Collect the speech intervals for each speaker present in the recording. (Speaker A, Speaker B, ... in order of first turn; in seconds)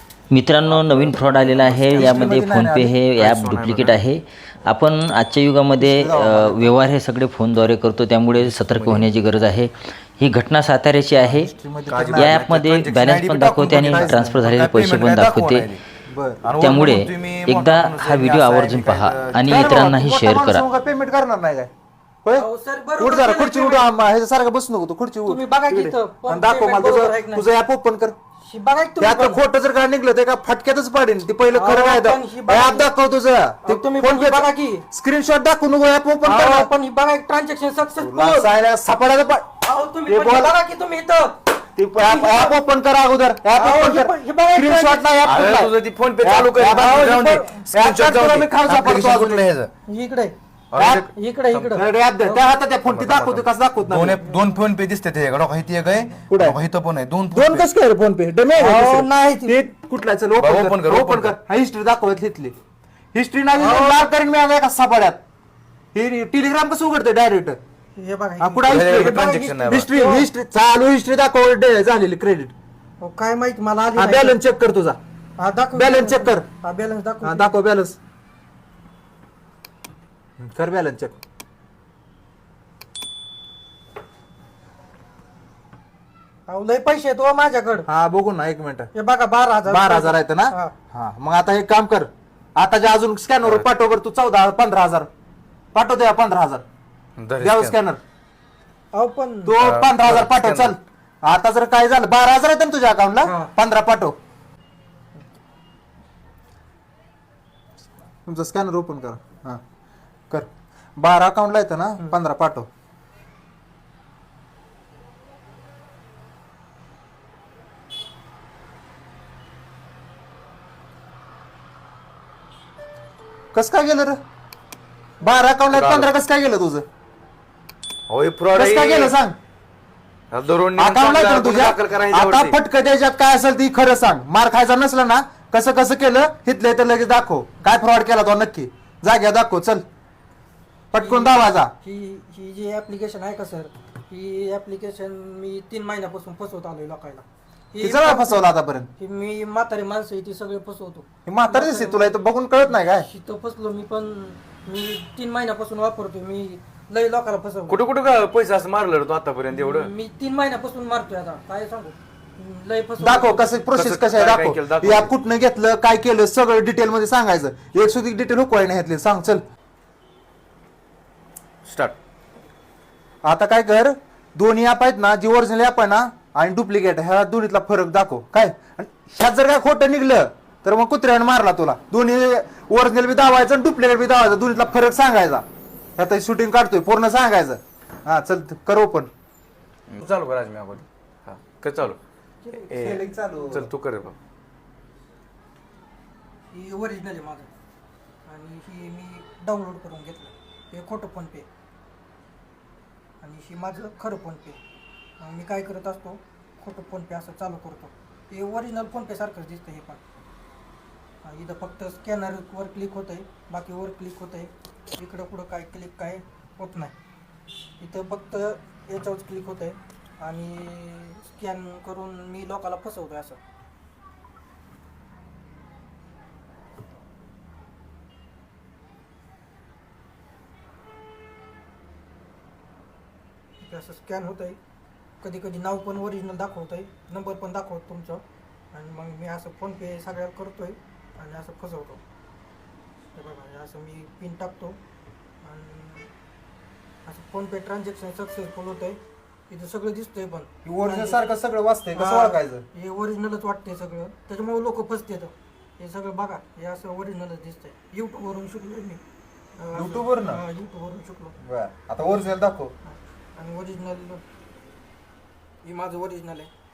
Speaker A: 0.3-11.5, 12.1-15.7, 16.6-20.6
Speaker B: 0.7-2.3, 3.1-4.0, 8.3-9.1, 11.9-15.8, 16.4-19.5, 45.2-49.7, 50.7-51.7, 52.9-57.7, 60.4-61.4, 68.7-69.9, 97.2-97.8, 99.6-100.7, 125.7-126.1, 128.1-129.2, 130.3-132.6, 157.7-159.9, 163.7-165.1, 171.7-171.9, 189.9-192.0, 192.5-194.1
Speaker C: 1.9-3.0, 5.8-6.8, 11.2-12.6, 13.8-14.3, 16.1-16.4, 19.4-21.7, 23.0-28.1, 29.0-36.7, 38.0-39.5, 40.0-40.5, 41.7-49.5, 50.8-51.0, 51.7-54.2, 56.3-56.6, 57.3-62.5, 63.1-65.2, 65.9-67.6, 68.4-72.5, 74.0-75.0, 75.7-76.5, 77.2-78.0, 80.4-81.2, 87.9-88.9, 89.7-95.1, 95.7-96.6, 97.4-98.0, 99.5-104.2, 108.2-109.6, 110.3-112.7, 123.5-124.2, 125.2-126.8, 128.5-129.3, 130.8-139.8, 140.9-141.7, 147.8-148.9, 151.2-153.1, 163.0-169.4, 173.2-185.4, 186.0-189.1, 192.7-193.7, 250.6-252.6, 259.7-260.4, 261.4-262.7
Speaker D: 22.3-24.1, 25.2-27.5, 28.4-29.4, 31.5-32.9, 33.6-34.8, 36.2-38.5, 39.6-41.5, 42.0-42.6, 43.5-45.4, 46.6-47.5, 49.9-50.4, 51.1-52.4, 58.5-59.7, 63.5-64.0, 68.0-70.3, 73.0-74.4, 75.4-77.6, 86.5-87.9, 88.9-90.7, 98.9-99.6, 103.2-103.5, 141.0-157.8, 159.5-163.7, 196.5-197.5, 198.2-201.5, 203.2-204.6, 205.2-210.0, 211.2-216.9, 217.8-223.4, 233.6-234.6, 235.2-242.0, 243.1-244.8, 245.4-246.1, 247.1-251.2, 251.9-259.0, 259.6-261.4, 262.8-264.2, 265.6-266.5